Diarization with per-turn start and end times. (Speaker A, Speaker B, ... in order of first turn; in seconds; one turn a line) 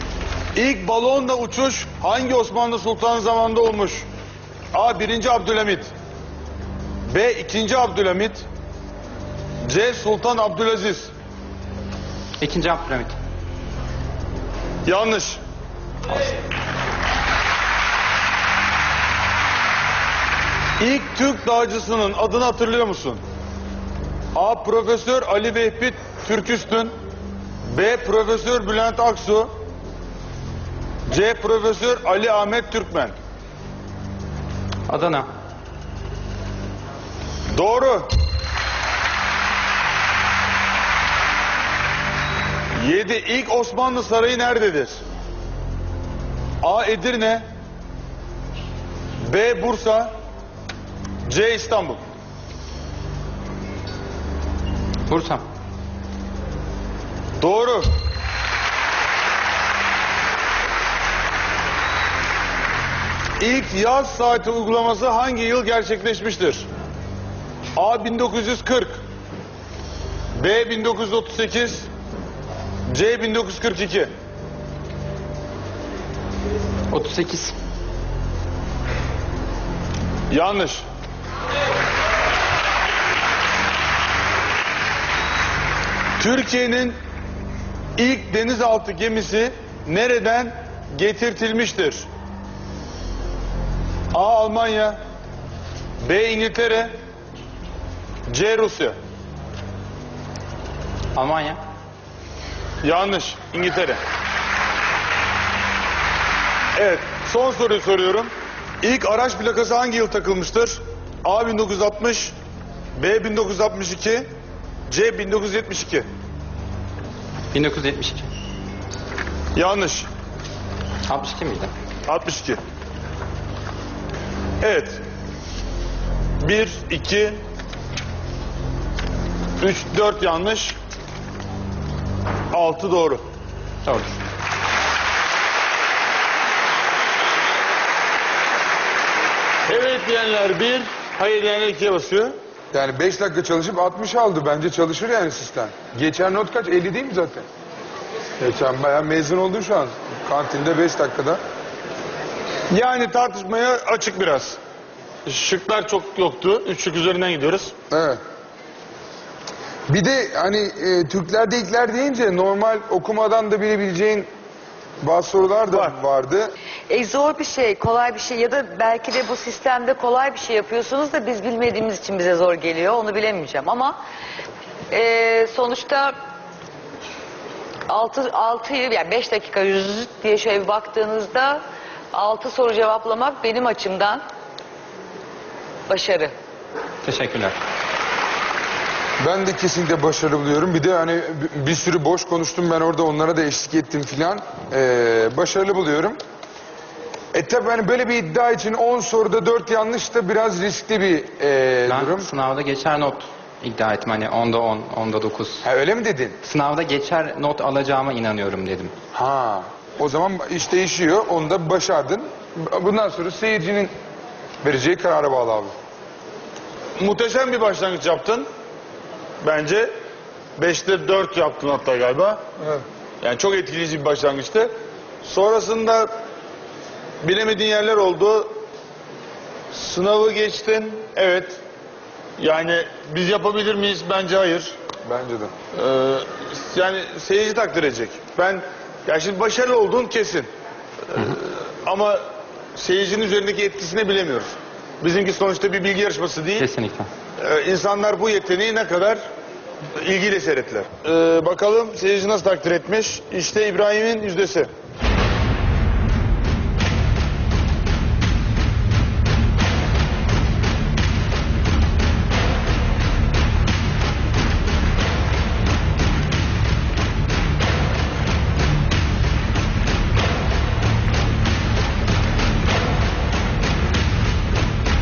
Speaker A: 0.5-4.0
Speaker A: 4.7-5.9
Speaker A: 7.1-8.4
Speaker A: 9.6-11.1
Speaker B: 12.4-13.2
Speaker A: 14.8-15.4
Speaker A: 20.8-23.2
Speaker A: 24.3-26.9
Speaker A: 27.7-29.5
Speaker A: 31.1-33.1
Speaker B: 34.9-35.3
Speaker A: 37.5-38.1
Speaker A: 42.8-45.0
Speaker A: 46.6-47.4
Speaker A: 49.2-50.1
Speaker A: 51.2-52.0
Speaker B: 55.1-55.4
Speaker A: 57.4-57.9
Speaker A: 63.4-66.7
Speaker A: 67.8-69.0
Speaker A: 70.4-71.9
Speaker A: 72.9-74.1
Speaker B: 76.9-77.5
Speaker A: 80.3-80.8
Speaker A: 86.2-87.0
Speaker A: 88.0-92.1
Speaker A: 94.1-95.0
Speaker A: 96.0-96.9
Speaker A: 98.3-99.0
Speaker B: 101.1-101.6
Speaker A: 102.8-104.0
Speaker A: 106.8-108.3
Speaker A: 108.8-112.3
Speaker A: 113.0-114.2
Speaker A: 114.9-116.1
Speaker B: 117.5-118.3
Speaker A: 119.5-120.1
Speaker B: 121.1-121.7
Speaker A: 122.1-122.6
Speaker A: 124.6-125.0
Speaker A: 126.4-127.4
Speaker A: 129.6-130.8
Speaker A: 132.5-133.2
Speaker B: 133.8-134.2
Speaker A: 139.7-142.3
Speaker C: 142.7-147.4
Speaker C: 148.4-151.4
Speaker A: 152.7-154.6
Speaker A: 155.2-157.7
Speaker C: 157.9-158.2
Speaker C: 159.9-164.3
Speaker C: 165.0-166.5
Speaker A: 165.7-165.9
Speaker D: 166.9-173.9
Speaker D: 174.9-176.1
Speaker D: 177.9-181.6
Speaker D: 182.1-184.2
Speaker D: 185.9-186.3
Speaker B: 187.0-187.6
Speaker C: 189.2-196.2
Speaker C: 197.3-202.3
Speaker B: 201.8-205.7
Speaker C: 205.6-206.4
Speaker B: 206.4-208.9
Speaker C: 209.1-213.9
Speaker C: 214.6-215.7
Speaker A: 217.0-218.4
Speaker A: 219.4-219.9
Speaker A: 220.6-222.4
Speaker A: 223.2-224.7
Speaker A: 225.2-226.1
Speaker A: 227.2-228.5
Speaker A: 229.7-231.6
Speaker A: 232.4-234.8
Speaker C: 235.0-235.5
Speaker A: 235.7-240.5
Speaker A: 241.1-242.2
Speaker A: 242.8-246.7
Speaker B: 246.6-247.1
Speaker A: 247.4-249.2
Speaker A: 250.0-254.7